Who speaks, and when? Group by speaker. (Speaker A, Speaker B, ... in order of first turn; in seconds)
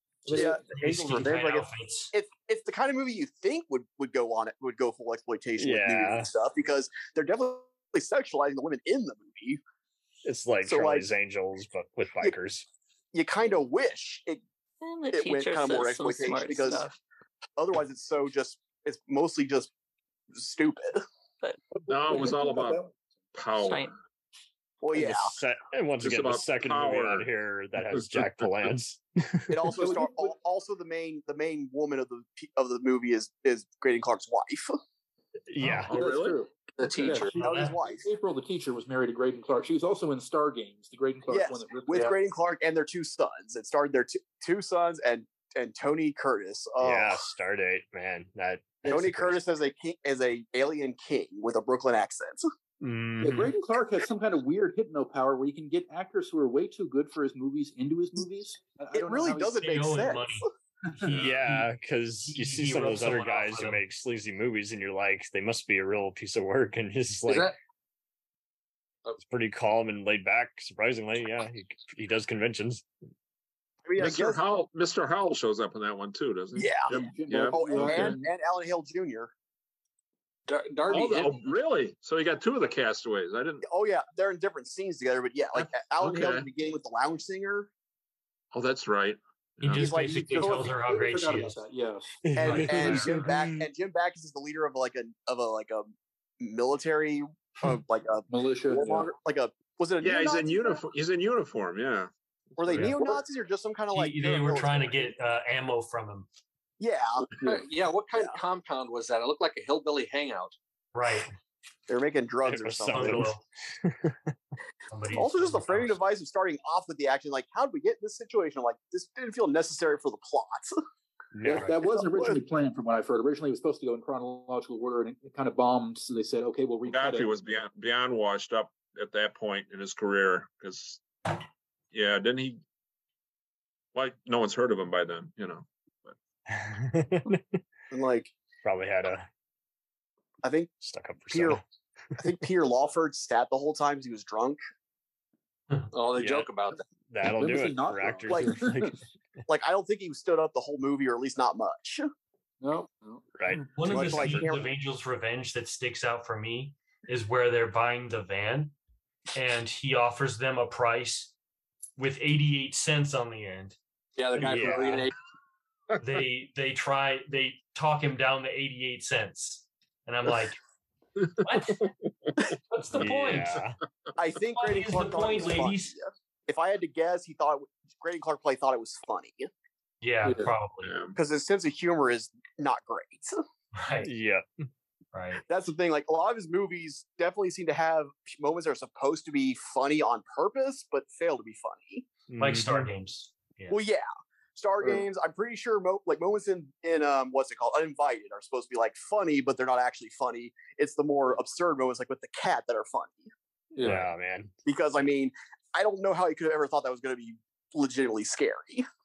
Speaker A: 0.3-0.7, 21.7-22.9, 29.7-30.4, 35.9-42.1, 53.2-59.6, 76.9-78.2, 89.9-93.0, 98.3-99.1, 121.4-127.3, 147.2-148.9, 152.6-153.2, 180.2-180.5, 203.8-204.1
Speaker B: 0.3-9.6, 10.7-11.1, 13.1-14.4, 15.1-16.9, 17.6-19.7, 20.3-21.0, 24.8-25.3, 29.5-34.8, 37.3-38.1, 41.3-47.2, 48.9-52.5, 59.0-60.5, 73.9-74.4, 76.6-79.3, 83.6-87.7, 89.7-90.8, 92.3-100.8, 102.6-105.1, 106.8-108.4, 111.9-113.3, 115.1-120.8, 121.9-122.4, 137.9-138.3, 140.4-140.7, 141.3-141.6, 142.2-144.6, 148.3-148.6, 149.5-152.1, 153.9-154.7, 174.2-179.5, 181.2-183.4, 185.4-192.1, 193.7-203.3, 204.7-208.8
Speaker C: 0.7-2.1, 37.4-37.8, 59.6-60.5, 61.0-61.7, 62.2-63.8, 89.6-91.6, 92.4-93.1, 102.7-103.2, 103.9-106.3, 110.9-111.3, 112.9-113.4, 114.9-116.0, 121.5-121.8, 153.7-158.8, 159.3-161.3, 162.0-163.8, 166.0-170.6, 171.4-171.9, 172.7-173.6, 174.5-175.9, 180.0-180.9, 183.8-184.1, 185.1-185.4, 192.4-193.8
Speaker D: 5.6-6.3, 10.2-12.7, 24.9-29.7, 35.5-35.9, 46.8-49.4, 52.8-53.4, 61.1-67.5, 69.2-72.8, 92.2-93.7, 112.4-114.3, 121.3-121.7, 136.5-137.6, 138.6-139.3, 140.8-141.6, 146.1-146.5, 147.1-149.0, 153.4-154.4, 164.4-165.1, 172.9-173.8, 184.0-184.7, 192.3-192.9, 203.8-204.5
Speaker E: 14.8-17.0, 23.6-23.9
Speaker F: 21.9-22.8, 23.3-23.9, 26.0-27.3, 27.9-28.4, 35.9-36.4, 74.0-78.1, 80.9-83.6, 85.5-86.5, 88.5-90.0, 100.0-102.1, 126.9-131.0, 131.9-132.6, 133.9-136.2, 171.2-172.4, 180.8-181.2
Speaker G: 36.8-37.4, 67.3-67.6, 80.5-81.5, 107.4-110.5, 145.9-146.8, 164.2-165.1